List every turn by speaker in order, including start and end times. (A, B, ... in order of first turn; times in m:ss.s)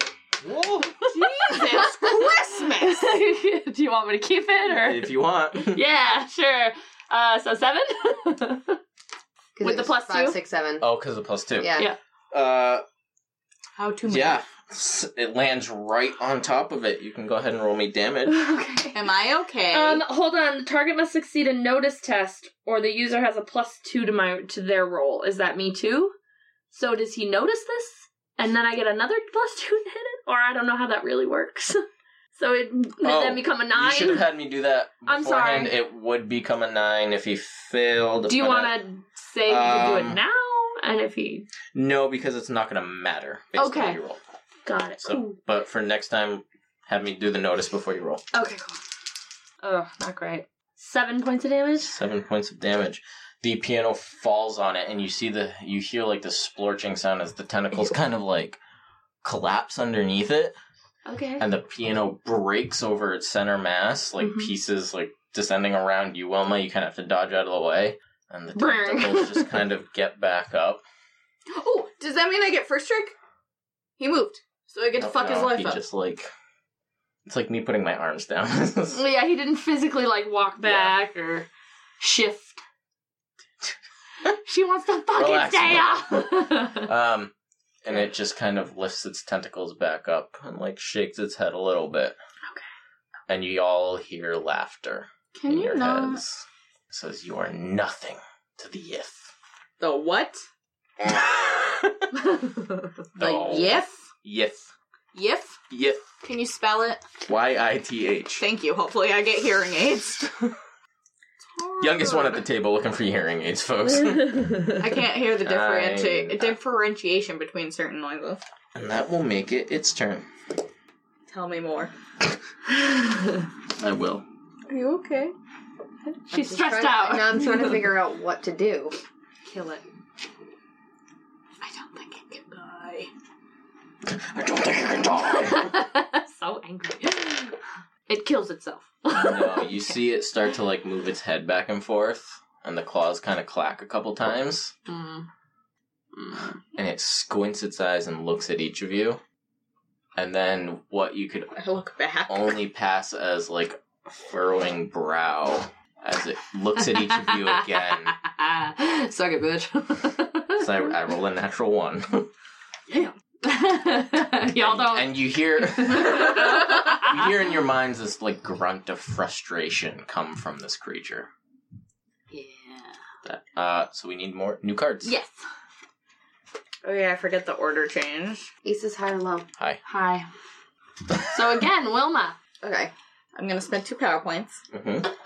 0:00.4-0:01.1 A
0:01.1-0:08.8 B
0:01.2-0:03.1 C
0:04.7-0:05.8 A
0:09.6-0:10.8 D
0:09.6-0:10.4 B
0:10.8-0:11.7 A
0:11.6-0:11.9 D
0:12.3-0:12.8 A
0:13.8-0:14.4 C
0:14.0-0:18.4 A
0:18.3-0:19.1 B
0:18.9-0:20.0 C
0:19.7-0:26.1 B
0:26.7-0:31.8 B
0:32.3-0:34.3 B
0:33.0-0:38.8 A
0:35.0-0:35.7 B
0:38.3-0:41.5 B
0:39.4-0:40.2 A
0:41.7-0:44.2 A
0:43.6-0:44.0 B
0:44.6-0:45.4 B
0:45.0-0:48.2 A
0:48.3-0:48.8 B
0:49.6-0:51.9 B
0:51.8-0:58.6 A
0:59.2-1:00.5 A
1:01.0-1:01.4 B
1:01.4-1:10.8 A
1:04.2-1:04.5 B
1:08.5-1:09.6 B
1:11.5-1:13.1 C
1:14.0-1:15.8 C
1:15.0-1:16.3 A
1:17.2-1:19.0 A
1:18.9-1:21.5 B
1:20.6-1:20.9 A
1:22.0-1:22.6 B
1:24.2-1:26.9 B
1:25.1-1:27.3 A
1:27.8-1:32.2 A
1:33.3-1:39.3 A
1:35.3-1:36.2 C
1:39.8-1:40.4 C
1:41.0-1:42.1 A
1:42.2-1:42.9 B
1:43.1-1:44.7 A
1:43.2-1:44.0 C
1:45.1-1:45.6 C
1:45.7-1:46.0 A
1:46.2-1:47.0 C
1:47.3-1:48.4 A
1:48.4-1:50.5 C
1:51.5-1:52.4 C
1:51.8-1:54.7 A
1:54.3-1:54.7 B
1:54.8-1:58.4 C
1:55.4-1:56.6 A
1:58.7-2:00.3 A
2:01.3-2:01.9 C
2:03.8-2:04.2 A
2:04.7-2:05.3 C
2:06.0-2:07.8 B
2:06.3-2:09.0 D
2:09.4-2:09.8 B
2:11.6-2:13.1 C
2:14.0-2:15.7 A
2:15.4-2:19.9 B
2:19.1-2:24.7 A
2:24.9-2:25.3 B
2:26.1-2:26.6 B
2:26.7-2:29.2 A
2:30.2-2:31.5 A
2:31.5-2:32.6 C
2:32.3-2:38.1 A
2:36.8-2:40.9 B
2:40.6-2:42.3 A
2:43.4-2:47.3 B
2:44.5-2:51.3 A
2:52.3-2:52.9 C
2:53.2-2:55.1 A
2:55.0-2:55.4 B
2:56.8-2:58.5 C
2:58.6-2:59.5 D
2:59.8-3:00.3 B
3:01.2-3:02.4 B
3:02.6-3:04.6 C
3:04.7-3:05.1 A